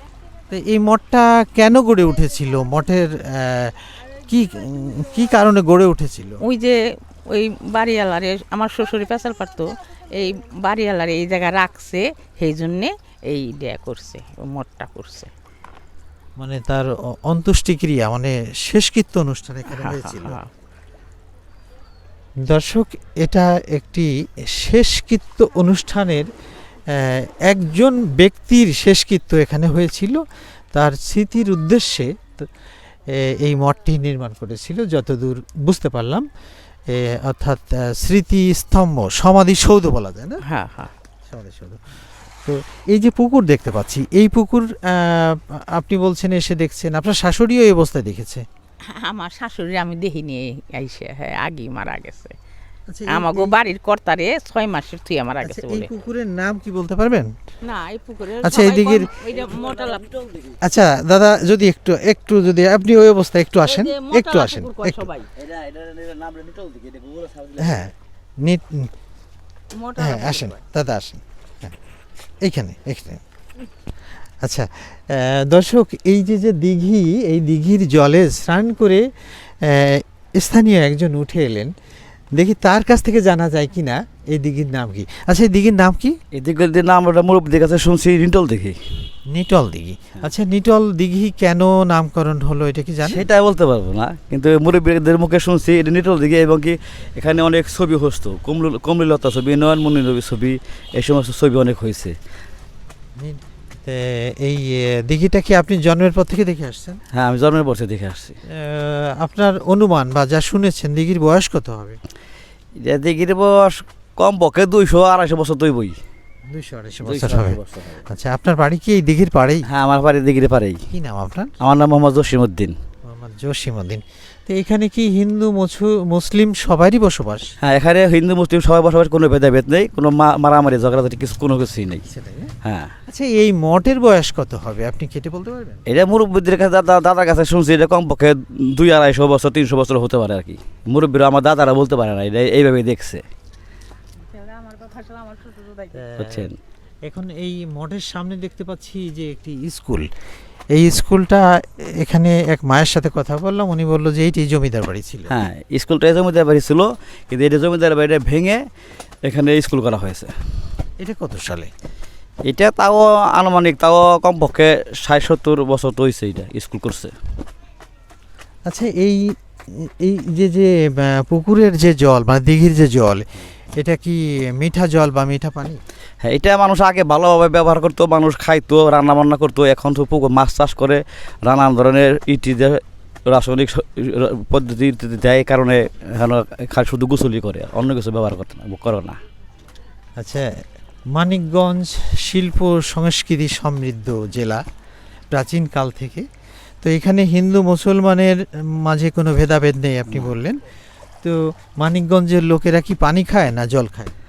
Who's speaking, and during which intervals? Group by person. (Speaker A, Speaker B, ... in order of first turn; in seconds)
Speaker A: 0.5-6.4, 16.4-20.4, 22.4-26.3, 26.9-30.2, 30.7-32.5, 33.1-36.3, 36.9-40.4, 41.3-41.8, 42.4-48.5, 52.9-53.6, 55.4-57.3, 58.4-59.1, 60.6-65.1, 67.6-68.9, 70.0-71.7, 72.4-73.2, 74.4-79.0, 79.6-81.7, 82.4-86.2, 89.3-93.2, 103.2-107.0, 108.6-112.0, 116.5-119.7, 120.9-121.5, 123.1-127.5, 132.1-132.5, 133.1-135.8, 146.0-146.5, 147.1-150.1, 150.7-155.3, 161.0-161.7, 168.7-173.3, 173.8-175.8, 190.2-190.5, 191.1-194.6, 195.3-196.3, 196.8-200.6, 201.2-204.1
Speaker B: 6.4-6.8, 7.3-15.3, 19.7-20.5, 40.5-40.9, 49.0-52.4, 53.1-55.9, 57.6-60.1, 63.6-65.3, 69.8-70.5, 144.2-146.1
Speaker C: 65.4-67.8, 86.3-88.8, 93.0-102.2, 107.1-108.4, 112.8-116.0, 117.0-118.0, 119.7-120.8, 121.6-122.8, 127.6-132.0, 132.6-132.9, 135.9-143.2, 146.2-146.6, 155.3-158.6, 159.2-160.3, 162.5-167.1, 176.2-189.2